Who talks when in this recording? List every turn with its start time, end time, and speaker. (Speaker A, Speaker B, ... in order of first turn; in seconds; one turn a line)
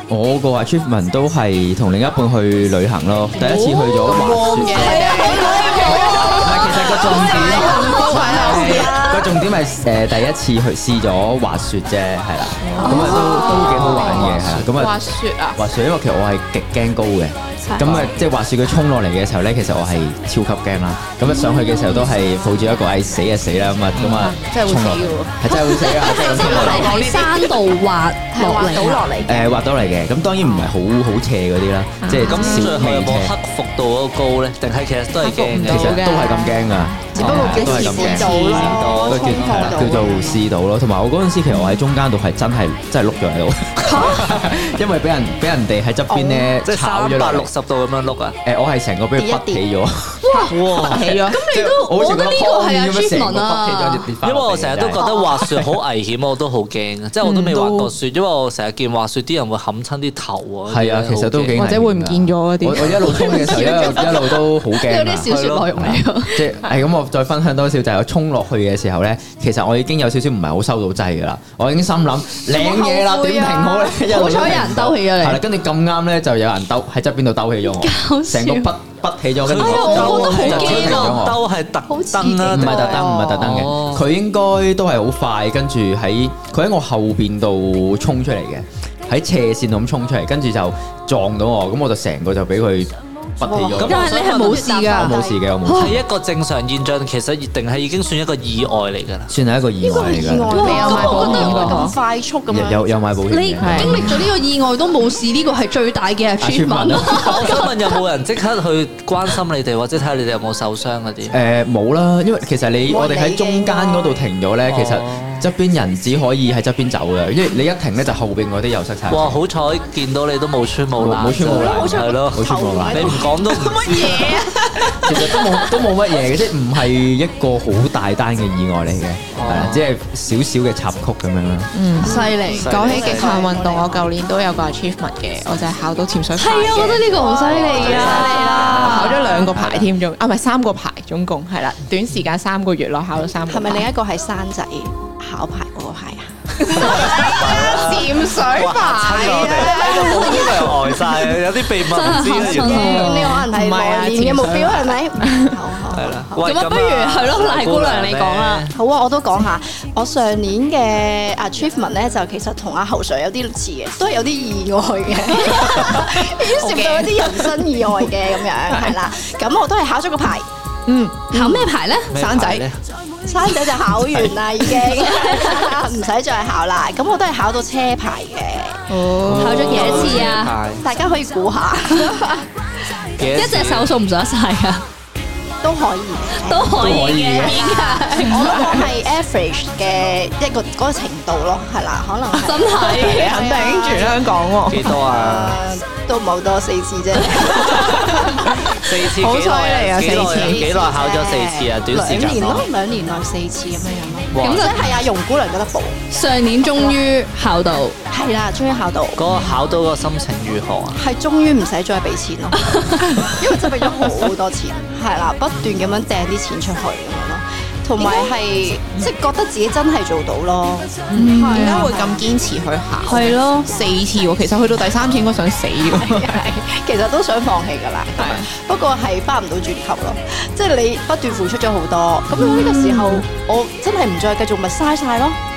Speaker A: 0.1-15.0
Speaker B: 3.4-8.9
Speaker C: 4.5-9.4
Speaker B: 12.6-15.6
Speaker D: 12.8-13.7
Speaker E: 12.9-14.7
Speaker A: 15.6-27.0
Speaker C: 17.6-17.9
Speaker E: 17.9-18.1
Speaker C: 21.3-22.5
Speaker E: 23.9-24.3
Speaker B: 24.0-25.4
Speaker D: 25.5-29.0
Speaker B: 26.1-27.5
Speaker C: 28.3-29.6
Speaker A: 29.2-33.3
Speaker B: 30.4-30.7
Speaker B: 32.0-32.7
Speaker E: 32.2-36.0
Speaker B: 35.2-38.7
Speaker A: 35.6-47.5
Speaker C: 37.2-40.5
Speaker E: 37.2-39.9
Speaker B: 41.5-41.8
Speaker C: 43.9-44.1
Speaker C: 46.1-46.5
Speaker E: 46.6-48.4
Speaker A: 48.4-50.2
Speaker C: 49.1-49.7
Speaker D: 50.2-50.5
Speaker E: 50.5-51.3
Speaker B: 50.8-51.5
Speaker D: 51.2-54.1
Speaker A: 51.3-55.0
Speaker E: 54.2-61.6
Speaker D: 55.0-55.4
Speaker B: 57.2-57.9
Speaker A: 60.7-81.4
Speaker B: 61.5-63.8
Speaker D: 63.1-66.4
Speaker E: 65.3-66.0
Speaker B: 72.5-74.0
Speaker D: 74.1-75.4
Speaker D: 77.8-78.7
Speaker E: 79.4-84.0
Speaker D: 79.6-81.2
Speaker D: 81.9-83.1
Speaker A: 82.5-94.1
Speaker B: 82.7-83.3
Speaker B: 93.4-93.8
Speaker E: 93.8-94.4
Speaker C: 93.8-95.4
Speaker D: 93.8-96.0
Speaker A: 94.9-96.0
Speaker E: 95.7-99.3
Speaker A: 99.3-101.7
Speaker C: 99.8-102.9
Speaker D: 100.5-101.3
Speaker B: 100.5-102.0
Speaker E: 101.1-101.8
Speaker A: 102.5-104.2
Speaker D: 103.3-107.9
Speaker B: 103.6-104.1
Speaker A: 106.4-107.3
Speaker E: 107.2-111.3
Speaker A: 111.3-119.4
Speaker C: 112.8-114.2
Speaker E: 114.6-115.5
Speaker E: 119.1-124.4
Speaker A: 121.0-123.3
Speaker C: 121.0-125.4
Speaker A: 124.9-131.7
Speaker E: 129.3-129.8
Speaker B: 131.7-138.1
Speaker D: 132.0-132.7
Speaker C: 132.0-134.2
Speaker E: 132.4-133.4
Speaker D: 136.3-139.5
Speaker C: 137.2-139.3
Speaker E: 137.3-139.9
Speaker B: 138.8-143.9
Speaker C: 143.5-147.2
Speaker B: 146.6-151.0
Speaker E: 146.6-153.1
Speaker D: 149.7-150.6
Speaker D: 151.8-153.4
Speaker C: 152.3-156.6
Speaker B: 152.4-155.6
Speaker E: 155.9-158.7
Speaker D: 156.4-158.6
Speaker C: 158.7-170.5
Speaker B: 166.1-168.1
Speaker B: 170.9-171.6
Speaker C: 171.3-171.7
Speaker D: 171.3-172.1
Speaker E: 172.1-172.8
Speaker B: 172.1-172.6
Speaker C: 173.2-178.8
Speaker D: 174.9-175.6
Speaker B: 178.9-180.3
Speaker E: 179.2-180.8
Speaker D: 179.3-180.5
Speaker C: 179.8-180.1
Speaker C: 180.8-182.4
Speaker D: 181.9-182.2
Speaker E: 183.1-183.9
Speaker D: 183.3-184.8
Speaker C: 185.6-186.9
Speaker D: 186.4-188.5
Speaker A: 186.8-187.6
Speaker B: 187.4-188.9
Speaker C: 188.1-194.3
Speaker D: 192.3-193.4
Speaker B: 193.1-195.0
Speaker E: 194.7-195.6
Speaker C: 194.9-198.5
Speaker B: 198.2-200.7
Speaker E: 198.8-202.6
Speaker C: 200.1-206.0
Speaker E: 204.3-204.9
Speaker D: 204.4-204.7
Speaker D: 206.1-207.9
Speaker C: 206.6-207.0
Speaker C: 208.1-209.2
Speaker E: 209.2-211.0
Speaker C: 210.9-222.1
Speaker D: 212.7-213.2
Speaker B: 221.1-226.5
Speaker D: 221.1-221.9
Speaker D: 223.0-223.7
Speaker C: 225.8-235.4
Speaker B: 228.2-228.5
Speaker B: 232.3-233.3